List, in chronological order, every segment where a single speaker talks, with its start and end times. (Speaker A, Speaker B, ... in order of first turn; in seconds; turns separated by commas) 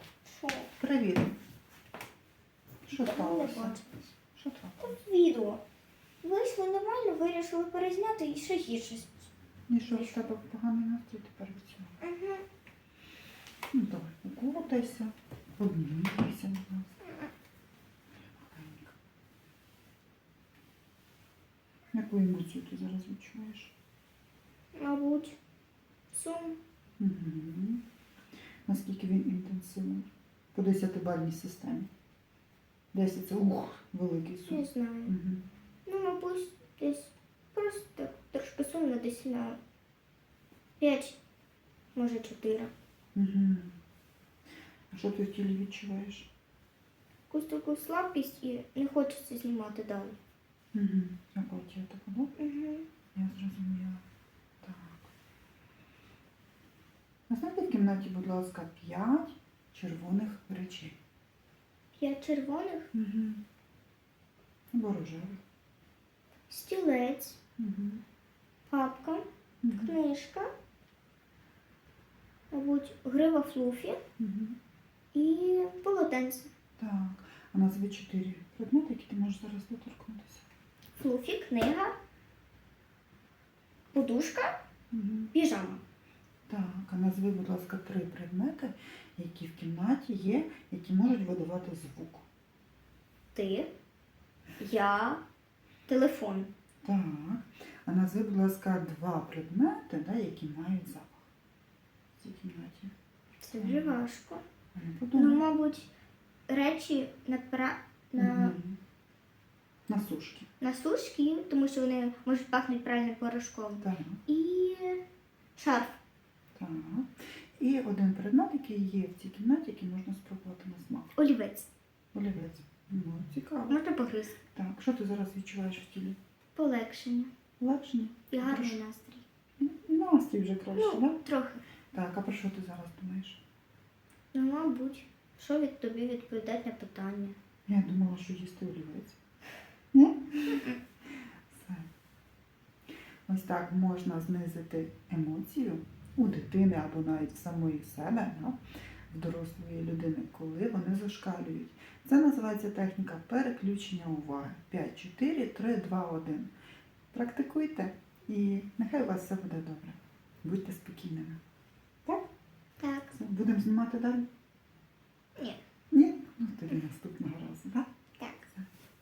Speaker A: 0.2-0.7, Speaker B: 0.8-1.4, Speaker B: 2.9-3.8, Speaker A: 2.9-4.1, Speaker B: 4.3-4.9, Speaker A: 4.8-5.6, Speaker A: 6.2-9.3, Speaker B: 9.7-12.0, Speaker A: 9.8-10.3, Speaker A: 12.0-12.4, Speaker B: 13.7-17.0, Speaker B: 18.3-18.9, Speaker B: 21.9-23.7, Speaker A: 24.8-25.4, Speaker A: 26.1-26.6, Speaker B: 27.0-27.8, Speaker B: 28.6-31.9, Speaker B: 32.9-35.4, Speaker A: 34.5-35.1, Speaker A: 35.9-39.6, Speaker A: 40.8-41.2, Speaker A: 41.9-42.7, Speaker B: 43.1-43.7, Speaker B: 44.9-46.3, Speaker A: 47.3-50.2, Speaker B: 50.7-52.3, Speaker A: 52.4-52.8, Speaker B: 53.1-54.0, Speaker B: 54.6-55.1, Speaker B: 57.3-61.0, Speaker A: 62.0-62.9, Speaker B: 62.9-63.4, Speaker B: 64.7-65.4, Speaker A: 66.5-67.4, Speaker B: 67.6-68.0, Speaker A: 68.7-70.5, Speaker B: 69.6-70.0, Speaker A: 72.5-74.0, Speaker B: 74.2-74.6, Speaker A: 75.1-76.5, Speaker B: 76.8-80.4, Speaker A: 81.0-81.9, Speaker A: 83.9-84.6, Speaker B: 84.9-85.3, Speaker A: 85.3-85.8, Speaker B: 86.5-92.2, Speaker A: 93.3-93.7, Speaker A: 94.6-95.2, Speaker A: 95.9-96.5, Speaker B: 96.8-101.3, Speaker B: 102.2-102.9, Speaker A: 103.4-104.4, Speaker B: 103.5-104.0, Speaker B: 104.7-105.4, Speaker A: 105.1-105.9, Speaker A: 106.5-108.5, Speaker B: 108.2-108.8, Speaker B: 109.9-110.5, Speaker A: 110.6-115.0, Speaker B: 113.8-114.2, Speaker A: 115.6-116.0, Speaker B: 116.5-121.1, Speaker A: 121.2-121.7, Speaker B: 122.1-123.8, Speaker A: 123.7-124.4, Speaker B: 124.5-126.2, Speaker A: 126.5-127.3, Speaker B: 127.6-128.8, Speaker A: 128.3-129.2, Speaker B: 129.6-131.2, Speaker A: 130.7-131.6, Speaker B: 131.9-133.4, Speaker A: 134.3-137.3, Speaker B: 137.7-139.2, Speaker B: 139.9-140.7, Speaker B: 141.5-141.9, Speaker B: 143.3-148.6, Speaker B: 149.1-156.5, Speaker B: 157.1-161.4, Speaker A: 162.8-163.1, Speaker B: 163.1-164.2, Speaker B: 165.9-167.8, Speaker A: 168.2-168.4